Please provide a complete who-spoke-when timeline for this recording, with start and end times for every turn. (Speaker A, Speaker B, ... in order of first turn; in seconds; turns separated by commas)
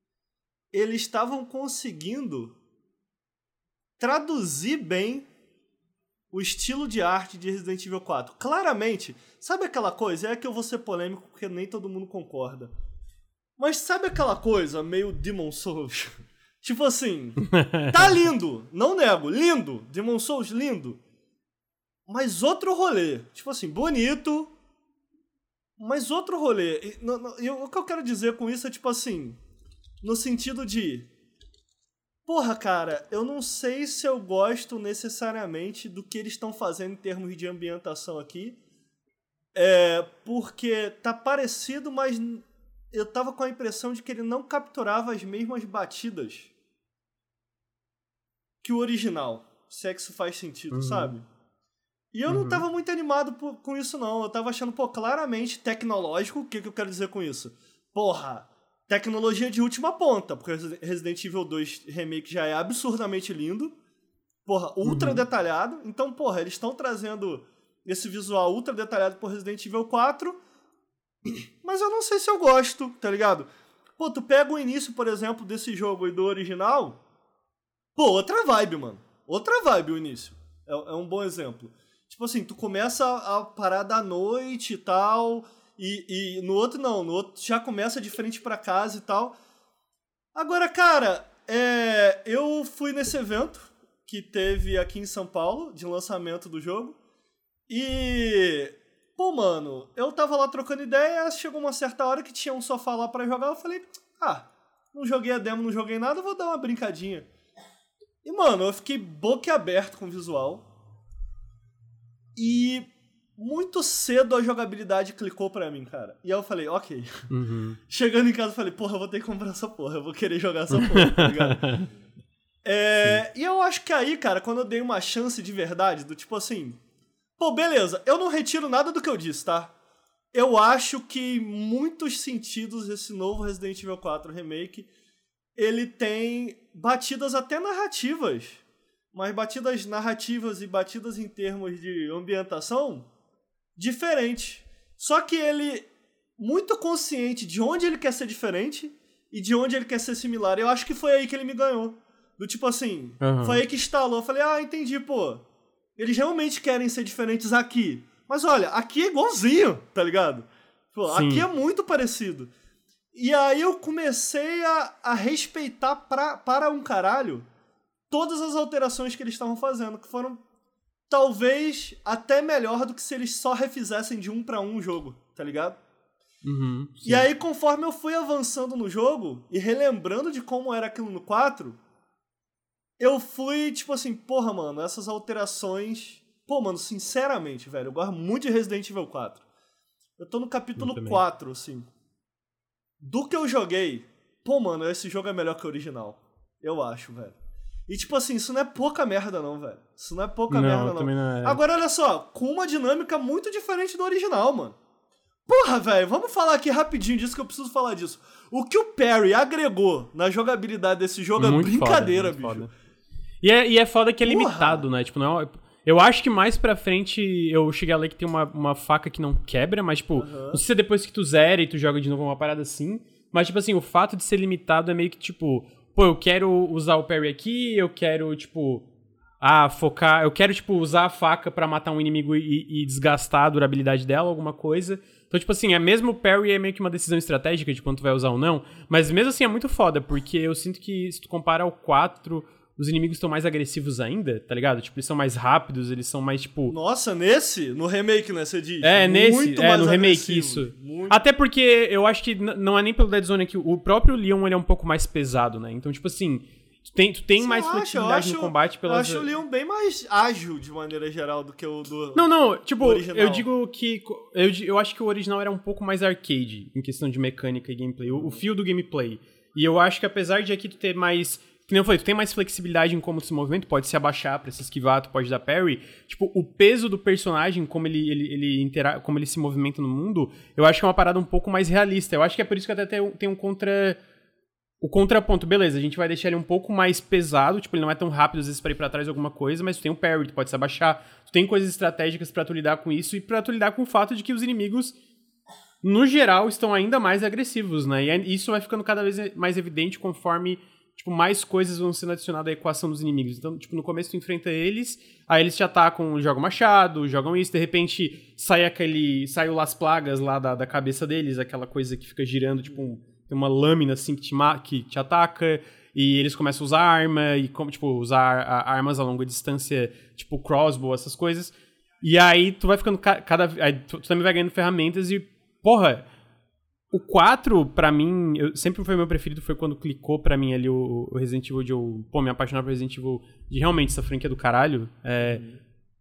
Speaker A: 0.7-2.5, Speaker A: 4.0-5.3, Speaker A: 6.3-12.7, Speaker A: 13.6-21.0, Speaker B: 17.5-17.9, Speaker A: 22.1-24.5, Speaker A: 25.8-29.4, Speaker A: 30.0-31.1, Speaker A: 32.2-38.6, Speaker A: 39.5-46.5, Speaker A: 48.6-51.3, Speaker B: 50.7-51.1, Speaker A: 52.1-63.7, Speaker B: 52.3-52.6, Speaker A: 64.5-70.4, Speaker B: 64.8-65.2, Speaker A: 71.2-77.0, Speaker A: 78.0-89.3, Speaker A: 90.3-97.0, Speaker A: 97.7-107.3, Speaker A: 108.2-110.7, Speaker A: 112.3-117.2, Speaker B: 117.3-117.8, Speaker A: 117.9-121.8, Speaker B: 120.7-121.9, Speaker A: 122.6-126.8, Speaker A: 127.4-129.7, Speaker A: 130.3-134.9, Speaker A: 135.6-138.6, Speaker A: 139.1-143.1, Speaker A: 143.8-145.9, Speaker A: 146.4-155.4, Speaker B: 153.2-153.6, Speaker A: 156.0-162.5, Speaker B: 161.1-161.4, Speaker A: 163.1-167.5, Speaker A: 168.1-170.4, Speaker A: 171.1-175.8, Speaker B: 176.4-177.3, Speaker A: 177.0-181.8, Speaker A: 183.0-189.4, Speaker A: 190.2-191.9, Speaker B: 190.8-191.2, Speaker A: 193.0-197.3, Speaker A: 197.9-204.8, Speaker B: 200.5-201.6, Speaker A: 205.5-212.7, Speaker B: 211.4-212.7, Speaker B: 213.4-228.9, Speaker A: 214.2-214.8, Speaker A: 220.2-220.6, Speaker B: 229.4-246.8, Speaker A: 246.7-251.2, Speaker B: 248.8-259.3, Speaker A: 257.4-262.3, Speaker B: 262.1-284.0, Speaker A: 262.8-263.4, Speaker A: 268.1-268.4, Speaker B: 284.8-294.9, Speaker B: 295.8-326.1, Speaker B: 326.9-335.4, Speaker A: 335.2-335.6